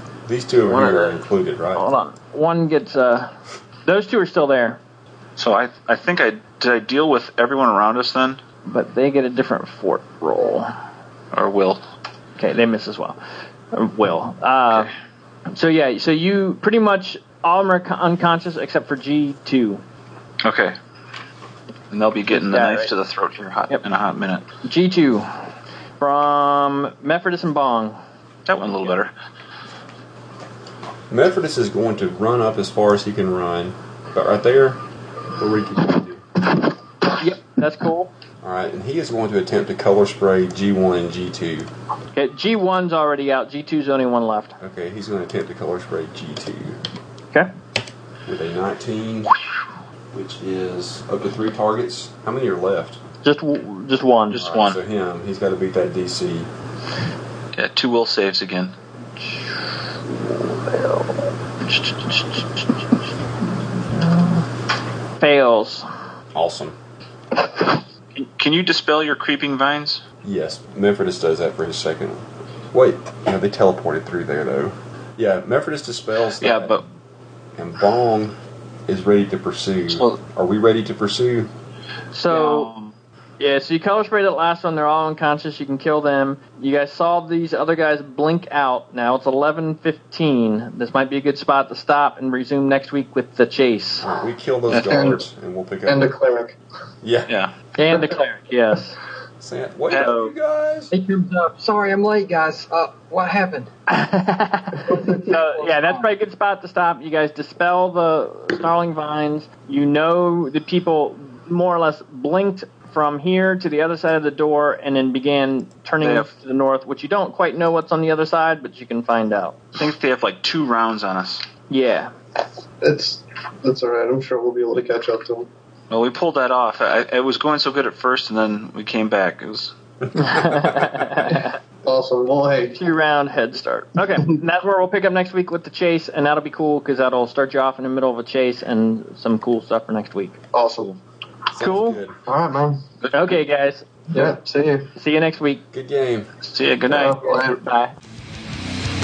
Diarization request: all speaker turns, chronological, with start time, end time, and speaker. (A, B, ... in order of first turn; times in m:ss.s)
0:00.3-0:01.9 A
0:00.6-0:01.2 B
0:01.8-0:03.3 B
0:03.8-0:04.8 B
0:05.4-0:08.4 C
0:08.6-0:10.7 B
0:11.3-0:11.8 C
0:12.4-0:13.2 B
0:13.7-0:14.9 B
0:15.5-0:19.8 B
0:20.4-0:20.8 C
0:21.9-0:24.4 C
0:22.5-0:22.9 B
0:24.6-0:25.3 B
0:26.0-0:28.0 B
0:28.4-0:29.1 C
0:31.1-0:34.8 A
0:35.4-0:36.2 A
0:37.2-0:38.1 B
0:38.4-0:41.7 A
0:42.1-0:44.6 B
0:44.6-0:46.8 A
0:48.3-0:49.3 A
0:50.1-0:53.0 A
0:53.2-0:54.4 B
0:54.3-0:54.8 C
0:54.4-0:56.5 A
0:57.5-0:58.8 C
0:59.2-1:02.8 B
1:03.6-1:04.5 B
1:05.2-1:05.9 B
1:06.3-1:06.8 A
1:08.1-1:10.0 C
1:10.2-1:16.8 A
1:16.4-1:16.8 C
1:17.6-1:18.4 A
1:18.9-1:21.5 A
1:19.9-1:20.2 C
1:22.1-1:22.7 B
1:22.3-1:23.0 C
1:23.4-1:34.1 B
1:34.0-1:36.1 A
1:34.7-1:35.2 C
1:34.9-1:35.2 D
1:35.9-1:36.6 D
1:37.0-1:37.3 A
1:37.3-1:37.5 C
1:37.8-1:39.0 B
1:39.4-1:40.9 A
1:39.9-1:40.3 C
1:40.9-1:43.7 E
1:43.9-1:59.6 B
1:44.9-1:46.1 E
1:45.3-1:45.6 C
1:56.0-1:56.3 C
1:59.8-2:01.4 C
2:01.7-2:02.1 B
2:02.8-2:05.5 D
2:05.9-2:09.7 C
2:10.2-2:11.5 B
2:10.5-2:10.8 A
2:11.1-2:12.8 D
2:12.7-2:20.4 B
2:20.5-2:21.0 D
2:21.5-2:22.2 A
2:21.6-2:22.0 B
2:22.3-2:22.8 D
2:23.0-2:23.4 C
2:23.1-2:24.4 B
2:24.1-2:24.9 D
2:25.0-2:25.6 B
2:25.7-2:26.3 A
2:26.4-2:27.2 C
2:26.9-2:27.7 D
2:27.2-2:27.9 B